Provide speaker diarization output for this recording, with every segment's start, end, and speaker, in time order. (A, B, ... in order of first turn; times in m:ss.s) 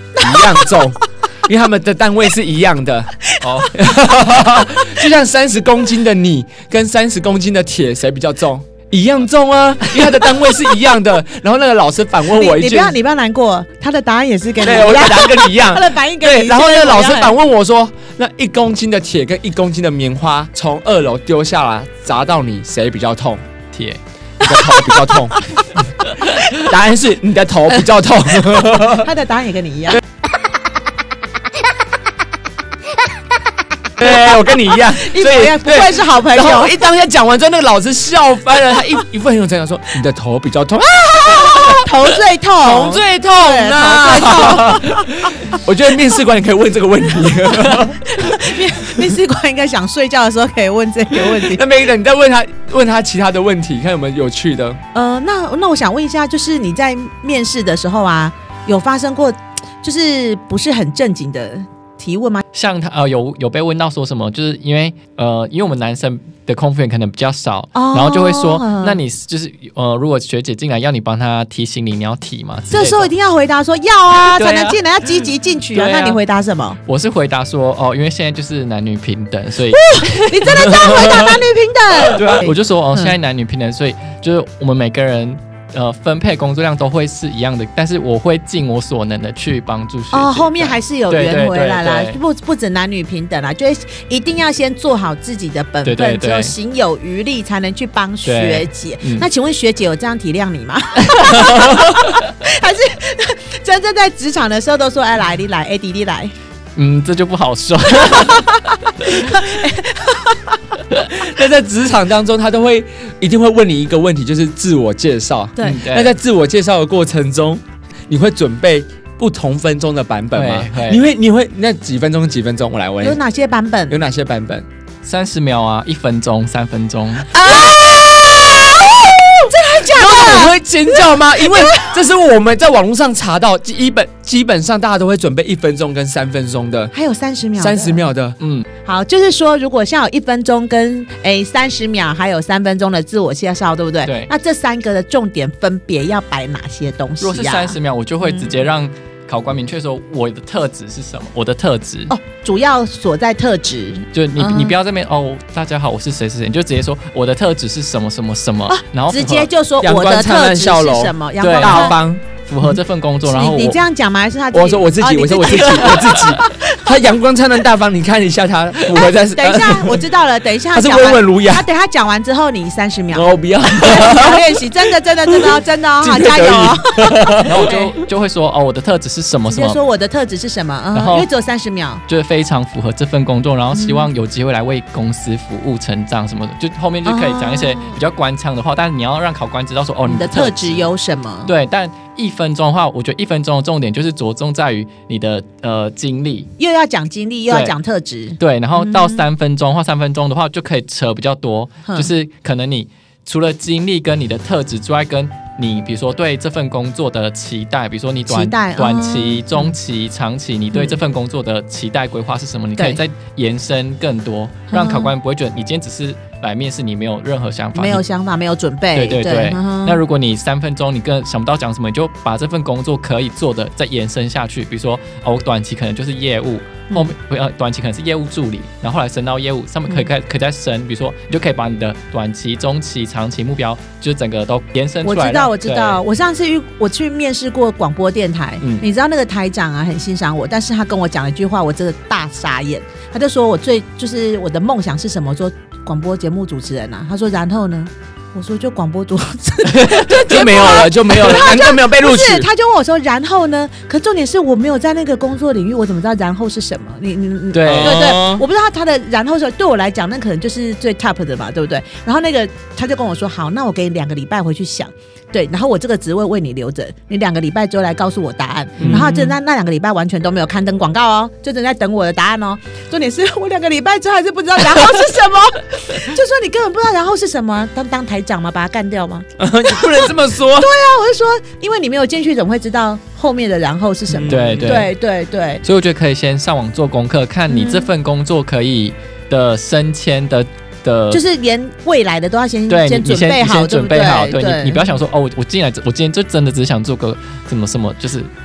0:00.2-0:00.7 A
0:00.2-0:13.0 B
0:03.3-0:03.7 A
0:03.4-0:03.8 C
0:04.6-0:05.0 A
0:10.2-0:10.6 A
0:12.3-0:17.4 A
0:14.6-0:23.4 B
0:23.7-0:24.0 C
0:24.4-0:25.4 B
0:24.5-0:25.6 A
0:26.4-0:29.1 B
0:28.9-0:30.0 A
0:34.0-0:49.1 B
0:34.7-0:36.8 A
0:41.2-0:45.3 A
0:47.4-0:51.6 A
0:51.2-0:54.8 B
0:54.9-1:02.4 A
1:02.5-1:13.1 C
1:07.7-1:09.0 A
1:12.7-1:16.8 A
1:14.2-1:16.2 C
1:16.9-1:21.0 C
1:19.8-1:23.1 A
1:20.5-1:21.3 B
1:22.1-1:32.2 C
1:30.1-1:46.3 A
1:35.8-1:36.6 C
1:38.2-1:39.3 C
1:41.0-1:42.2 C
1:46.8-1:49.4 C
1:47.9-1:50.6 A
1:51.1-2:03.2 B
1:55.6-1:55.8 A
1:55.6-1:56.2 C
2:00.3-2:01.1 C
2:03.0-2:04.0 A
2:03.9-2:04.6 B
2:05.0-2:07.4 C
2:07.3-2:08.0 A
2:07.4-2:16.9 B
2:09.4-2:12.0 A
2:16.9-2:18.0 A
2:17.6-2:18.4 B
2:18.4-2:18.6 C
2:18.8-2:28.5 A
2:24.0-2:24.3 C
2:27.2-2:32.1 C
2:32.1-2:34.8 A
2:34.1-2:39.5 C
2:38.7-2:42.0 A
2:39.8-2:42.2 B
2:41.4-2:43.8 C
2:42.6-2:46.8 A
2:44.5-2:50.0 B
2:46.0-2:46.4 C
2:48.9-2:58.0 A
2:50.7-2:51.7 B
2:53.1-2:54.6 B
2:55.3-2:57.7 B
2:57.4-2:59.8 C
2:59.5-3:02.0 A
3:01.0-3:01.3 C
3:02.1-3:10.9 C
3:03.7-3:04.1 A
3:07.0-3:08.0 A
3:10.1-3:11.5 A
3:11.5-3:16.5 C
3:16.6-3:19.3 A
3:17.5-3:17.8 C
3:18.4-3:38.0 C
3:28.3-3:29.8 A
3:34.7-3:35.1 A
3:37.7-3:40.0 A
3:39.0-3:56.0 C
3:55.0-4:45.6 A
3:58.6-3:58.9 C
4:09.6-4:12.5 B
4:17.5-4:18.1 C
4:17.6-4:18.4 B
4:28.8-4:29.4 B
4:39.4-4:40.7 B
4:44.1-4:44.9 B
4:44.3-4:44.9 C
4:45.6-4:51.2 C
4:47.5-4:47.9 A
4:51.1-4:55.0 A
4:52.7-4:58.3 C